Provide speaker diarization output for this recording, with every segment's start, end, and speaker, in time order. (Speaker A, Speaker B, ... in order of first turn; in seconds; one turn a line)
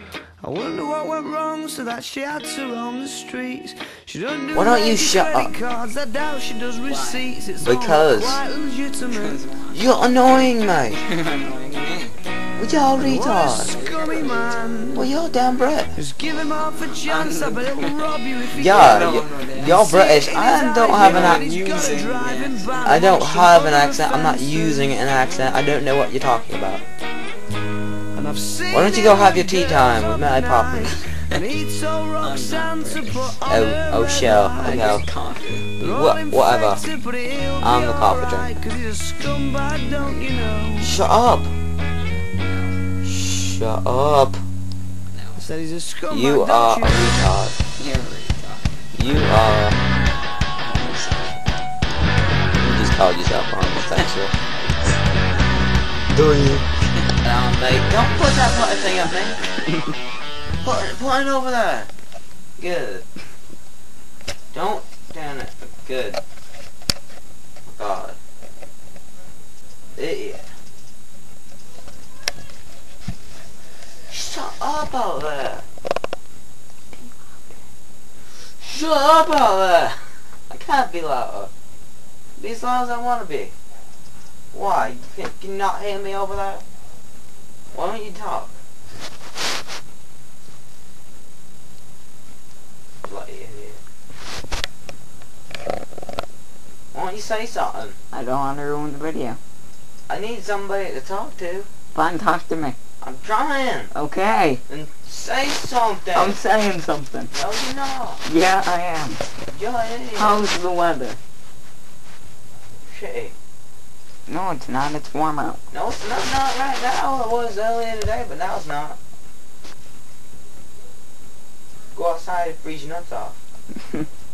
Speaker A: 0.4-9.4
Speaker B: 4.5-5.5
Speaker C: 6.8-7.2
Speaker B: 7.6-8.4
Speaker C: 9.1-9.7
Speaker B: 9.7-11.0
Speaker C: 11.0-12.2
Speaker B: 12.6-13.8
Speaker A: 13.0-15.1
Speaker C: 13.6-14.7
Speaker B: 14.9-15.9
Speaker A: 15.9-19.0
Speaker C: 17.0-18.1
Speaker B: 18.5-21.4
Speaker C: 18.6-19.8
Speaker A: 19.7-25.4
Speaker C: 20.9-22.9
Speaker B: 22.8-26.8
Speaker A: 28.1-35.0
Speaker B: 28.7-30.9
Speaker C: 32.2-33.4
Speaker B: 33.5-35.0
Speaker C: 34.6-35.7
Speaker A: 35.7-41.0
Speaker B: 35.8-36.8
Speaker B: 37.6-38.5
Speaker C: 39.9-40.3
Speaker B: 40.8-41.5
Speaker C: 42.4-42.8
Speaker B: 43.0-44.4
Speaker A: 45.4-47.3
Speaker B: 46.1-47.5
Speaker C: 47.7-48.9
Speaker B: 48.9-49.8
Speaker C: 50.6-51.4
Speaker B: 52.6-54.3
Speaker C: 56.1-57.0
Speaker B: 57.2-59.4
Speaker B: 60.6-61.9
Speaker B: 62.6-63.0
Speaker B: 64.5-66.2
Speaker B: 67.7-68.2
Speaker B: 70.0-70.4
Speaker B: 74.1-75.6
Speaker C: 76.9-77.5
Speaker B: 78.6-81.5
Speaker B: 82.4-83.5
Speaker B: 84.5-86.6
Speaker B: 87.7-88.5
Speaker B: 93.0-93.8
Speaker B: 96.9-98.0
Speaker C: 98.1-99.4
Speaker B: 100.1-101.7
Speaker C: 101.9-102.8
Speaker B: 103.0-103.9
Speaker C: 103.9-104.6
Speaker B: 104.7-106.4
Speaker C: 106.1-107.3
Speaker B: 107.3-108.2
Speaker C: 108.2-109.2
Speaker B: 109.5-110.4
Speaker C: 110.2-111.2
Speaker B: 112.8-113.3
Speaker C: 114.3-115.6
Speaker B: 115.7-119.0
Speaker B: 121.9-123.4